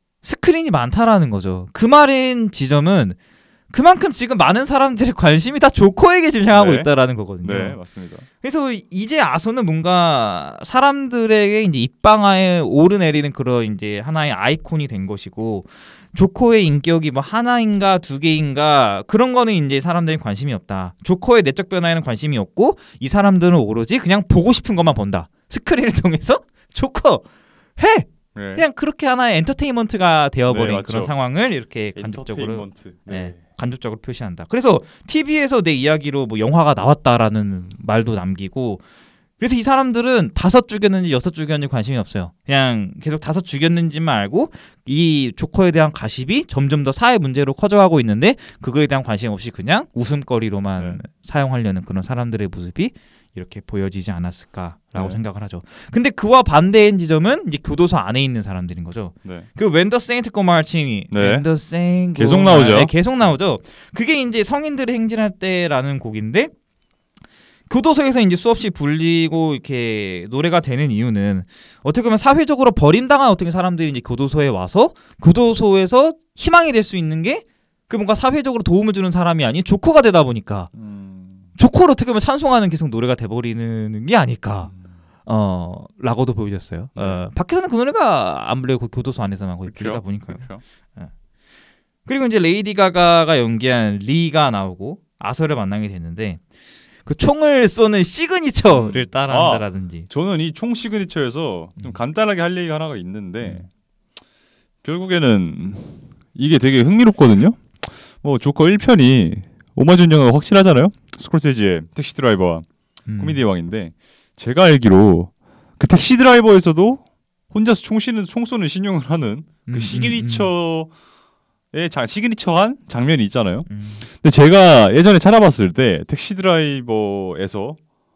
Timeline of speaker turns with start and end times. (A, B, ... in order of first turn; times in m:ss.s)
0:00.2-0:03.2 A
0:03.7-0:07.8 A
0:06.5-0:06.9 B
0:07.4-0:08.2 B
0:08.4-0:27.2 A
0:27.8-0:38.8 A
0:28.3-0:28.6 B
0:30.5-0:31.1 B
0:32.0-0:33.4 B
0:39.4-1:06.5 A
0:54.9-0:55.2 B
1:01.1-1:01.5 B
1:02.1-1:02.9 B
1:07.7-1:20.7 A
1:20.7-1:21.5 B
1:21.6-1:24.7 A
1:25.2-1:31.1 A
1:27.0-1:27.2 B
1:29.7-1:30.6 B
1:32.0-1:36.4 A
1:37.0-1:40.1 A
1:38.7-1:43.7 B
1:44.8-1:52.6 B
1:53.1-1:53.4 A
1:53.2-2:00.9 B
1:59.6-2:00.5 A
2:01.7-2:07.8 B
2:03.7-2:04.1 A